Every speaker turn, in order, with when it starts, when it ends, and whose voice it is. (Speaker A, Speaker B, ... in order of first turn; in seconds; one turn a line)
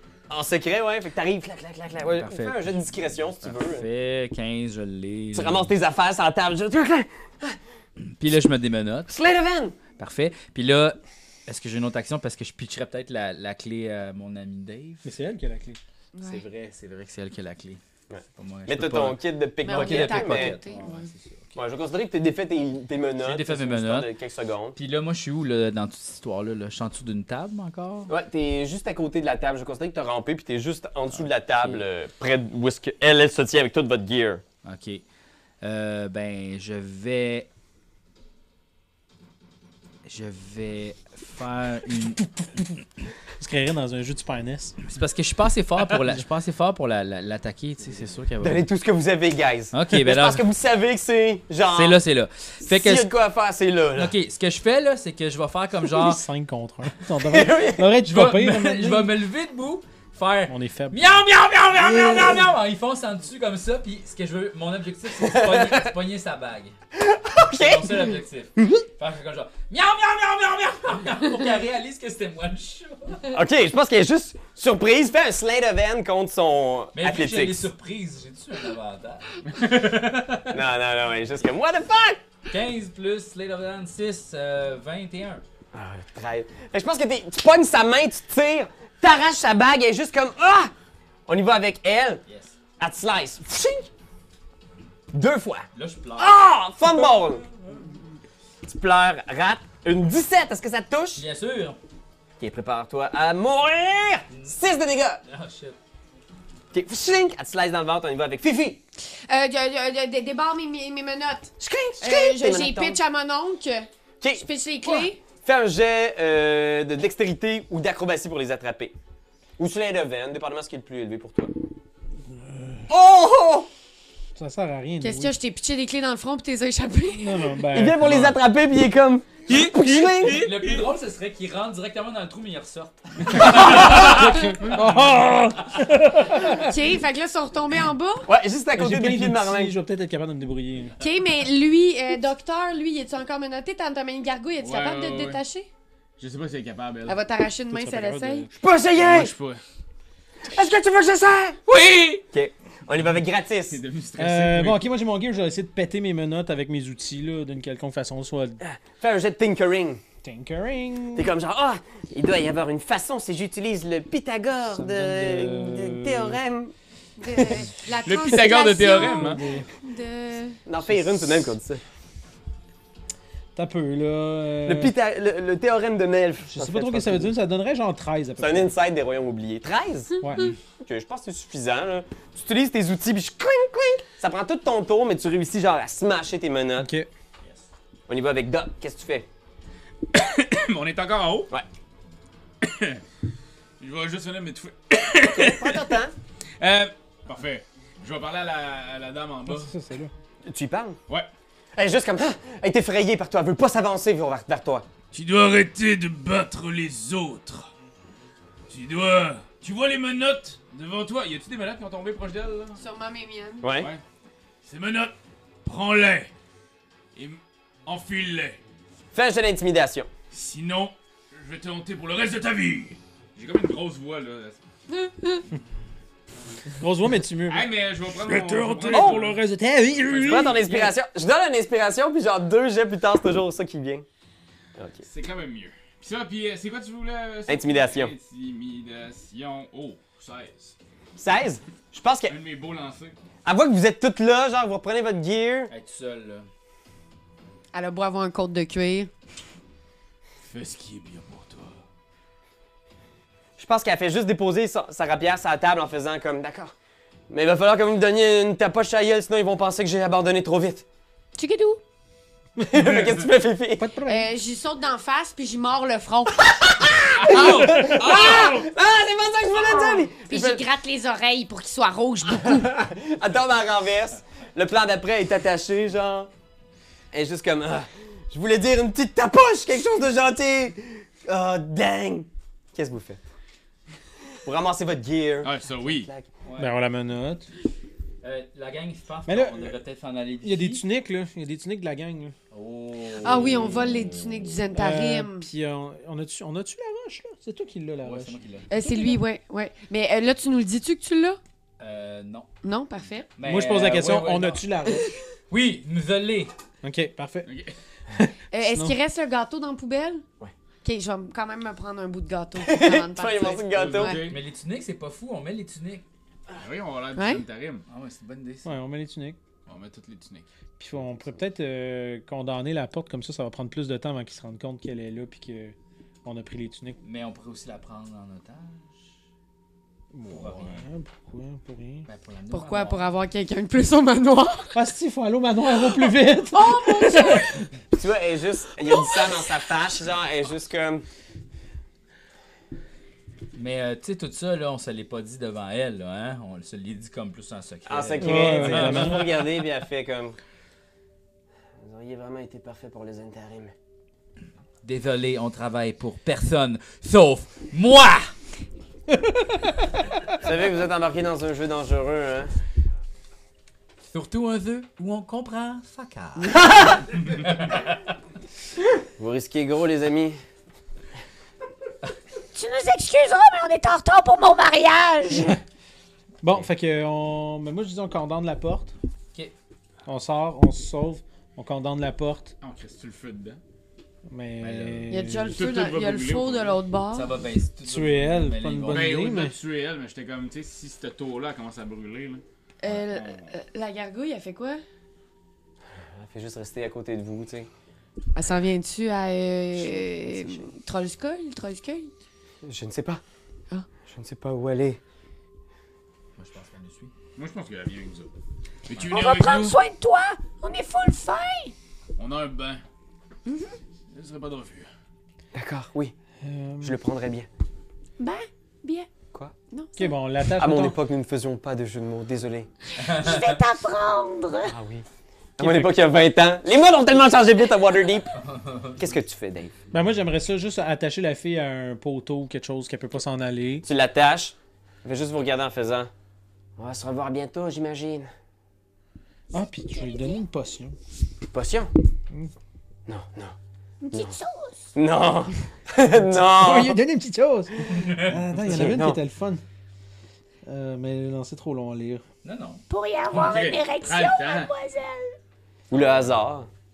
Speaker A: 0.3-3.9
Speaker B: 2.0-2.8
Speaker B: 3.4-5.7
Speaker A: 5.3-7.6
Speaker B: 8.1-9.1
Speaker A: 9.1-9.8
Speaker B: 10.0-15.1
Speaker C: 15.0-15.8
Speaker D: 16.1-16.4
Speaker B: 16.2-17.8
Speaker A: 18.1-20.6
Speaker B: 18.4-21.5
Speaker D: 19.6-21.1
Speaker A: 21.6-24.8
Speaker B: 23.2-24.1
Speaker B: 24.8-28.1
Speaker A: 28.1-34.4
Speaker B: 31.1-31.8
Speaker B: 34.6-35.0
Speaker B: 35.6-37.5
Speaker B: 40.1-42.3
Speaker C: 43.4-44.8
Speaker B: 44.8-48.7
Speaker A: 48.4-52.0
Speaker B: 49.7-50.5
Speaker B: 51.7-53.1
Speaker A: 52.6-54.1
Speaker B: 54.0-56.2
Speaker C: 55.9-59.1
Speaker A: 57.2-57.9
Speaker B: 58.1-66.7
Speaker C: 60.5-61.0
Speaker C: 62.1-62.4
Speaker A: 65.2-65.9
Speaker A: 67.0-68.2
Speaker B: 67.5-73.4
Speaker A: 73.3-77.7
Speaker B: 77.0-80.5
Speaker A: 80.5-82.2
Speaker B: 82.5-85.4
Speaker A: 85.7-90.7
Speaker A: 91.3-92.2
Speaker B: 92.3-92.6
Speaker A: 92.8-93.9
Speaker A: 95.1-97.5
Speaker B: 95.8-96.4
Speaker A: 98.6-101.2
Speaker B: 101.2-101.8
Speaker A: 102.4-105.2
Speaker B: 105.2-105.8
Speaker A: 106.7-108.8
Speaker D: 109.3-115.2
Speaker A: 111.6-113.0
Speaker A: 114.2-118.9
Speaker A: 119.6-121.6
Speaker C: 122.3-122.9
Speaker A: 122.9-123.7
Speaker C: 124.4-125.3
Speaker D: 125.0-127.6
Speaker C: 127.1-128.3
Speaker A: 127.7-130.5
Speaker E: 129.5-130.8
Speaker B: 130.2-133.7
Speaker C: 133.3-136.8
Speaker E: 133.4-134.8
Speaker A: 133.5-134.1
Speaker D: 136.6-138.3
Speaker A: 138.3-139.8
Speaker C: 138.8-141.0
Speaker D: 141.0-145.7
Speaker E: 144.6-145.4
Speaker E: 146.2-147.2
Speaker D: 147.1-148.5
Speaker C: 147.7-148.5
Speaker A: 148.6-149.3
Speaker E: 148.9-149.6
Speaker A: 150.4-151.6
Speaker E: 151.7-152.2
Speaker A: 152.3-153.8
Speaker E: 153.7-154.8
Speaker C: 154.2-158.6
Speaker A: 158.6-160.0
Speaker C: 160.2-161.3
Speaker A: 161.1-166.7
Speaker C: 164.7-166.4
Speaker D: 167.2-170.6
Speaker E: 168.0-169.4
Speaker C: 168.9-169.7
Speaker A: 170.7-171.8
Speaker C: 170.9-171.4
Speaker C: 173.6-174.9
Speaker A: 174.7-177.3
Speaker C: 176.5-178.7
Speaker A: 178.4-186.9
Speaker C: 180.2-180.6
Speaker C: 186.8-187.1
Speaker A: 188.1-189.3
Speaker E: 190.1-191.5
Speaker E: 192.6-193.0
Speaker E: 193.8-196.0
Speaker A: 195.2-196.1
Speaker E: 196.6-199.7
Speaker C: 199.5-200.1
Speaker A: 200.5-201.0
Speaker A: 201.8-204.9
Speaker E: 205.1-207.7
Speaker E: 208.7-212.8
Speaker D: 212.8-213.7
Speaker A: 213.6-213.9
Speaker E: 214.6-216.3
Speaker E: 217.2-218.6
Speaker A: 219.1-220.1
Speaker E: 220.3-224.6
Speaker D: 225.1-225.4
Speaker C: 226.8-230.9
Speaker E: 227.5-229.4
Speaker A: 228.9-229.2
Speaker E: 229.9-230.5
Speaker A: 230.1-234.1
Speaker A: 234.8-235.1
Speaker E: 235.1-240.8
Speaker A: 237.5-238.1
Speaker A: 241.2-242.3
Speaker E: 242.3-243.2
Speaker A: 243.4-245.7
Speaker B: 245.7-246.5
Speaker D: 247.7-249.1
Speaker E: 250.4-251.8
Speaker A: 253.6-256.7
Speaker A: 257.3-260.9
Speaker D: 261.4-261.8
Speaker A: 262.6-263.9
Speaker C: 263.8-264.3
Speaker D: 264.1-266.9
Speaker A: 266.6-270.6
Speaker E: 267.1-268.7
Speaker D: 270.3-272.7
Speaker A: 272.4-276.3
Speaker A: 277.1-283.2
Speaker A: 284.4-286.3
Speaker E: 285.4-286.1
Speaker B: 286.4-286.8
Speaker C: 286.6-287.5
Speaker B: 288.2-290.9
Speaker C: 289.3-289.8
Speaker C: 290.4-292.4
Speaker B: 292.5-294.0
Speaker D: 293.2-295.5
Speaker C: 294.7-298.4
Speaker B: 298.0-298.8
Speaker D: 298.7-301.4
Speaker B: 301.8-302.5
Speaker D: 302.6-303.3
Speaker B: 303.4-304.7
Speaker C: 303.4-305.1
Speaker B: 305.5-306.5
Speaker C: 306.8-307.5
Speaker E: 307.4-307.7
Speaker C: 308.1-309.0
Speaker D: 308.5-310.2
Speaker D: 310.8-314.3
Speaker A: 312.6-314.2
Speaker E: 313.7-314.4
Speaker B: 314.2-316.1
Speaker E: 316.6-317.9
Speaker D: 317.1-317.4
Speaker B: 317.9-318.7
Speaker C: 318.6-319.4
Speaker E: 319.7-320.5
Speaker C: 320.8-327.0
Speaker B: 327.0-329.0
Speaker C: 330.1-332.1
Speaker B: 330.3-330.9
Speaker B: 332.1-333.1
Speaker D: 332.5-334.8
Speaker C: 334.7-337.6
Speaker D: 336.5-337.6
Speaker A: 337.9-341.1
Speaker D: 339.0-339.3
Speaker B: 343.6-349.2
Speaker A: 347.9-350.4
Speaker C: 348.2-349.3
Speaker A: 351.8-353.7
Speaker B: 354.8-358.3
Speaker A: 360.4-362.5
Speaker B: 364.1-366.6
Speaker B: 367.4-367.8
Speaker A: 369.2-370.4
Speaker F: 372.5-375.6
Speaker C: 376.4-378.9
Speaker C: 380.1-382.5
Speaker E: 382.6-383.6
Speaker C: 384.3-385.6
Speaker B: 384.6-385.1
Speaker D: 385.1-387.3
Speaker E: 385.5-386.8
Speaker B: 387.1-389.2
Speaker C: 387.8-389.6
Speaker E: 388.9-393.5
Speaker D: 392.8-394.8
Speaker A: 395.9-397.7
Speaker D: 398.4-402.1
Speaker A: 399.8-400.7
Speaker A: 402.6-403.2
Speaker A: 404.1-405.0
Speaker B: 406.4-407.1
Speaker E: 407.4-408.3
Speaker E: 408.9-409.8
Speaker F: 409.1-411.7
Speaker E: 412.2-412.8
Speaker D: 413.5-413.8
Speaker E: 414.1-414.9
Speaker A: 415.5-416.1
Speaker C: 416.4-417.0
Speaker A: 416.8-417.5
Speaker D: 418.2-419.1
Speaker D: 419.7-420.2
Speaker C: 420.0-421.0
Speaker A: 420.6-422.7
Speaker B: 423.0-423.6
Speaker F: 423.2-424.7
Speaker A: 424.6-425.1
Speaker A: 425.6-428.4
Speaker B: 428.4-429.1
Speaker A: 429.0-429.7
Speaker C: 429.9-433.9
Speaker A: 433.8-436.1
Speaker A: 436.8-438.3
Speaker C: 439.5-441.0
Speaker F: 439.9-440.4
Speaker A: 441.5-441.9
Speaker A: 443.1-443.6
Speaker F: 444.0-444.9
Speaker A: 444.9-447.0
Speaker C: 446.3-449.6
Speaker B: 448.0-448.4
Speaker A: 448.6-449.2
Speaker C: 450.6-452.2
Speaker B: 452.4-452.8
Speaker F: 452.9-455.4
Speaker E: 453.3-454.7
Speaker A: 455.9-456.7